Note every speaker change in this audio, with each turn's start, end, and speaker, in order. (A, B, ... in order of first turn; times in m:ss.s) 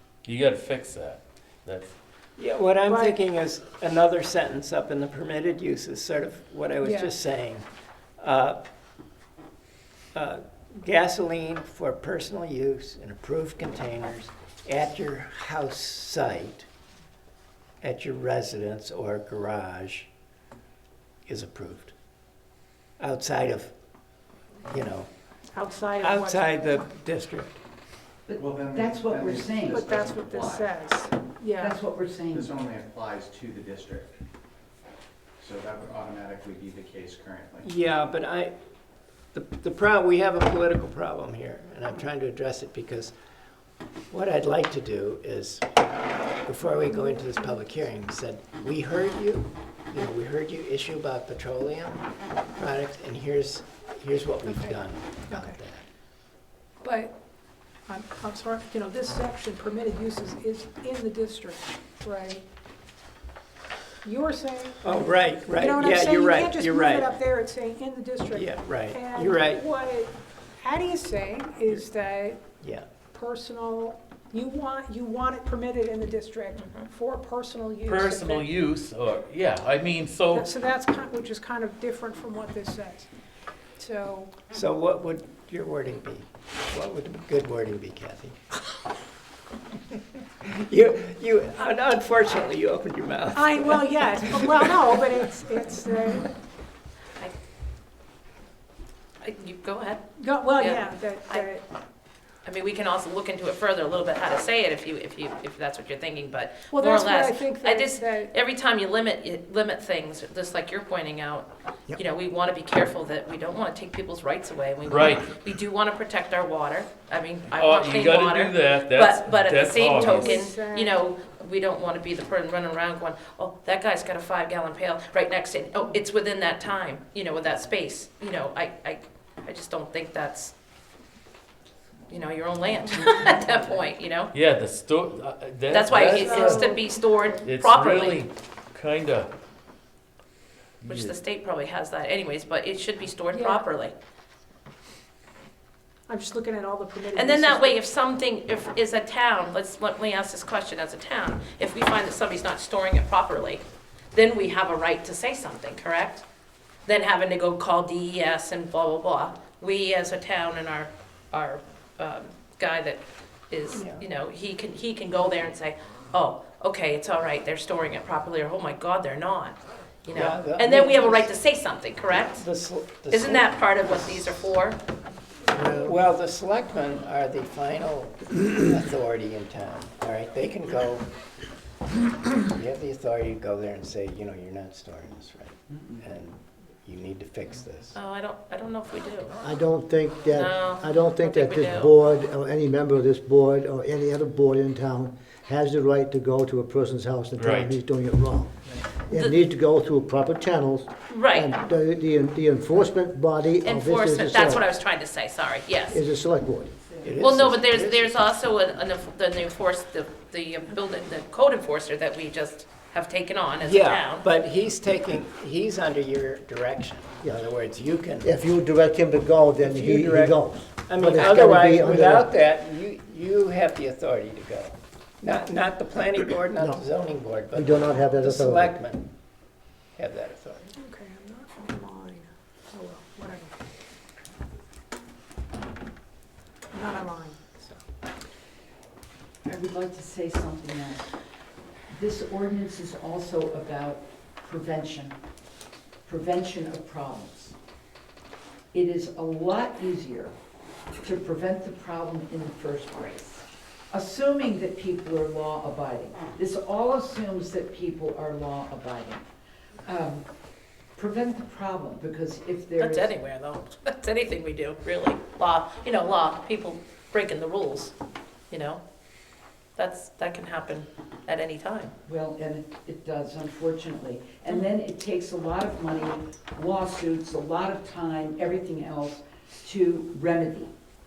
0:00.2-0:01.9 A
0:02.4-0:07.6 B
0:02.8-0:03.2 C
0:06.8-0:07.1 C
0:08.2-0:08.6 B
0:10.1-0:16.7 B
0:17.8-0:20.1 B
0:21.3-0:21.9 B
0:23.0-0:23.7 B
0:24.7-0:25.1 B
0:25.5-0:26.9 C
0:26.0-0:27.6 B
0:28.3-0:29.9 D
0:28.4-0:30.7 E
0:29.7-0:31.8 C
0:31.6-0:32.6 D
0:32.3-0:34.2 E
0:35.4-0:37.6 E
0:37.6-0:38.5 B
0:39.3-0:43.1 B
0:44.1-0:45.8 B
0:46.4-0:52.0 B
0:46.9-0:47.7 C
0:52.6-0:55.8 B
0:54.4-0:55.6 C
0:56.8-0:57.2 C
0:57.9-1:02.4 C
1:04.0-1:12.4 C
1:04.8-1:07.2 B
1:08.3-1:09.6 B
1:12.6-1:12.9 B
1:13.1-1:18.5 C
1:17.9-1:20.5 A
1:20.3-1:23.1 C
1:23.8-1:24.3 C
1:24.5-1:28.4 B
1:30.4-1:35.1 B
1:33.3-1:36.3 C
1:39.2-1:40.0 F
1:40.2-1:41.6 C
1:40.6-1:41.5 F
1:42.4-2:10.5 F
1:46.7-1:48.3 C
1:54.9-1:55.2 A
1:57.5-2:00.5 A
1:59.9-2:01.0 C
2:12.1-2:14.3 F
2:14.3-2:16.8 A
2:15.7-2:18.2 F
2:15.9-2:17.4 C
2:17.4-2:19.3 A
2:20.8-2:21.2 A
2:20.8-2:23.9 F
2:23.3-2:23.6 C
2:26.1-2:27.8 C
2:27.1-2:36.2 F
2:36.8-2:52.4 F
2:43.7-2:44.0 B
2:50.1-2:51.3 B
2:52.3-2:54.2 B
2:53.1-2:54.8 F
2:55.5-2:55.9 G
2:55.6-3:01.1 B
3:02.3-3:08.0 B
3:07.9-3:09.4 F
3:09.4-3:24.6 G
3:10.3-3:11.9 F
3:17.4-3:17.8 A
3:21.1-3:21.6 F
3:23.6-3:26.0 F
3:25.9-3:26.7 G
3:27.0-3:28.2 B
3:27.2-3:34.3 F
3:33.6-3:38.3 B
3:38.2-3:42.3 G
3:39.6-3:49.1 B
3:46.6-3:46.8 G
3:47.5-3:48.7 G
3:50.0-3:50.7 B
3:50.7-3:53.6 C
3:56.7-3:57.8 C
3:59.4-4:01.1 D
4:01.9-4:05.2 D
4:06.0-4:07.5 D
4:08.7-4:10.3 D
4:11.0-4:19.2 D
4:19.8-4:20.3 D
4:21.0-4:23.1 D
4:22.8-4:27.9 F
4:28.5-4:28.8 F
4:29.8-4:31.9 F
4:32.0-4:40.7 D